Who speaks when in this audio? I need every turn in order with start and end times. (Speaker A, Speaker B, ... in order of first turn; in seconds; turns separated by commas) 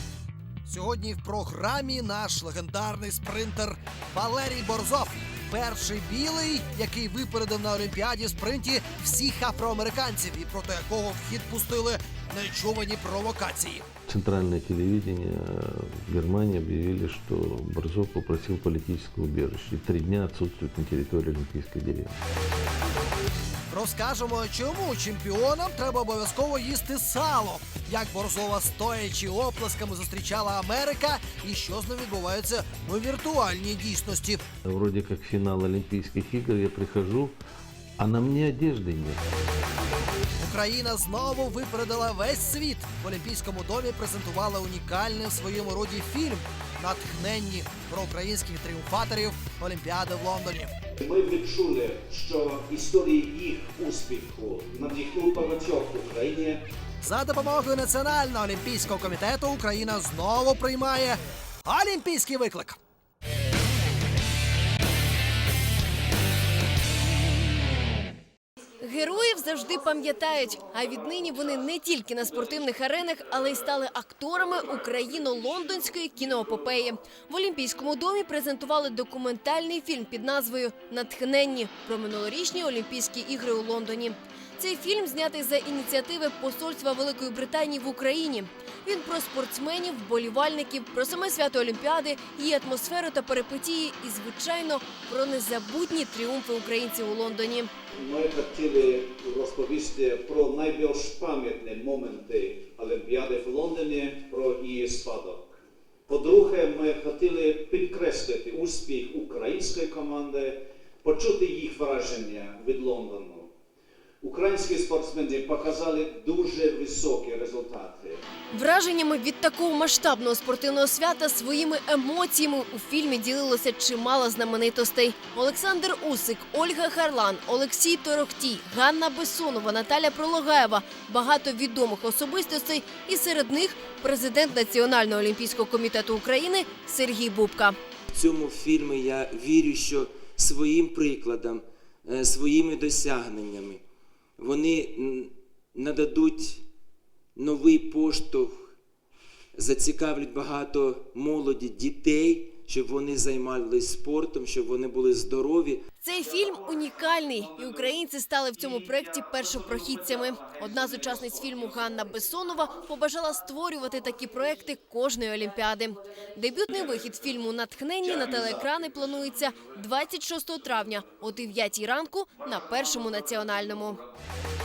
Speaker A: 0.7-13.8, Speaker B: 14.1-22.1, Speaker A: 23.7-34.4, Speaker B: 34.6-37.4, Speaker B: 38.0-39.2, Speaker A: 40.4-50.7, Speaker C: 51.1-56.6, Speaker A: 57.0-62.8, Speaker D: 68.8-97.7, Speaker C: 98.1-105.4, Speaker C: 106.1-110.5, Speaker C: 111.0-113.4, Speaker C: 114.2-118.2, Speaker D: 118.5-137.8, Speaker E: 138.1-143.8, Speaker E: 144.4-146.7, Speaker E: 147.3-148.6, Speaker E: 149.6-155.8, Speaker D: 156.0-174.0